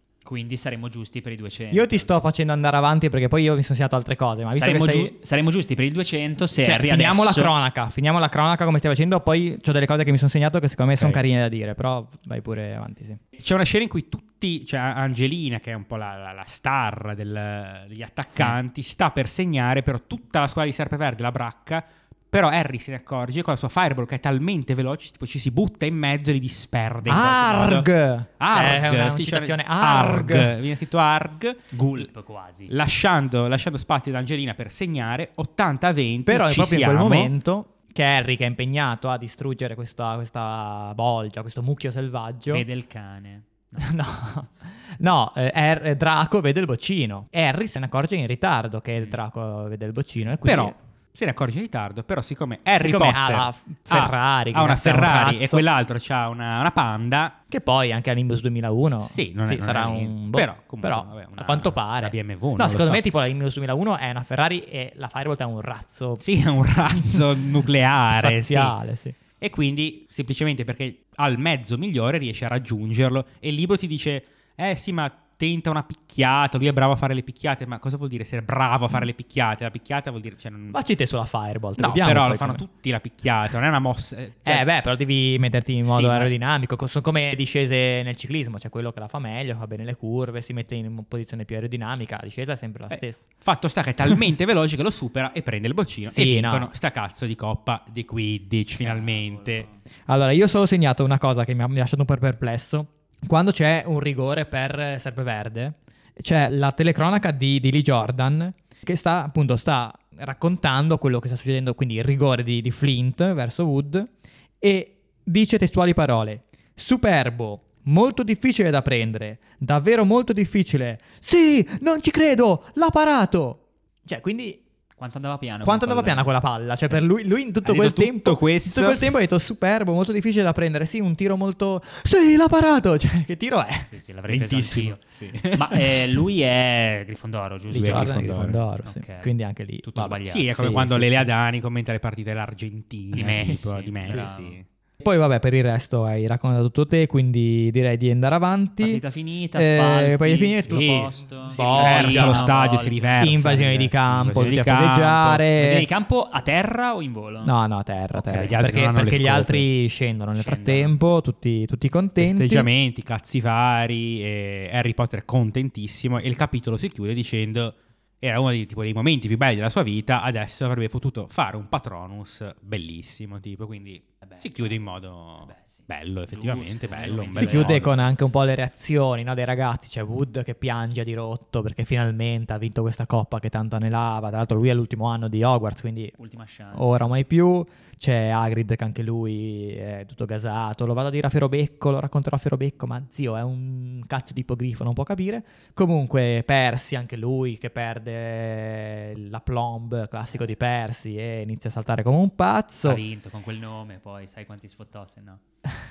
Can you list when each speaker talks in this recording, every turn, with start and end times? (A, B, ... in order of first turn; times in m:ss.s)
0:00.2-0:02.1 A
0:01.7-0:05.1 B
0:04.5-0:07.5 A
0:06.6-0:13.2 B
0:13.4-0:32.1 C
0:27.0-0:30.6 B
0:31.7-0:32.7 A
0:32.7-0:37.3 C
0:36.2-0:42.6 B
0:42.5-0:44.0 A
0:43.8-0:50.8 B
0:50.4-0:57.4 C
0:52.8-0:55.6 B
0:57.5-1:07.4 B
0:59.0-1:03.0 C
1:06.2-1:08.8 C
1:08.1-1:09.2 B
1:09.4-1:20.8 C
1:20.7-1:22.6 B
1:21.8-1:24.6 C
1:24.4-1:33.2 B
1:25.8-1:26.3 C
1:32.9-1:39.7 C
1:36.1-1:36.7 B
1:38.8-1:39.8 A
1:40.1-2:04.6 B
2:05.0-2:07.0 A
2:05.6-2:13.9 B
2:07.6-2:09.0 C
2:13.9-2:20.5 A
2:14.3-2:16.2 C
2:17.7-2:21.3 B
2:17.7-2:18.6 C
2:20.2-2:24.6 C
2:23.1-2:24.6 A
2:23.2-2:24.2 B
2:25.0-2:29.0 B
2:28.8-2:33.4 A
2:29.6-2:32.5 B
2:30.7-2:35.4 C
2:33.2-2:35.9 B
2:35.6-2:37.5 A
2:37.4-2:42.7 B
2:38.2-2:38.5 A
2:38.3-2:39.7 C
2:40.4-2:40.9 A
2:42.2-2:57.9 C
2:54.2-2:54.8 A
2:55.4-2:57.9 A
2:57.4-3:06.1 B
3:06.2-3:07.1 A
3:06.7-3:23.0 B
3:22.8-3:25.4 A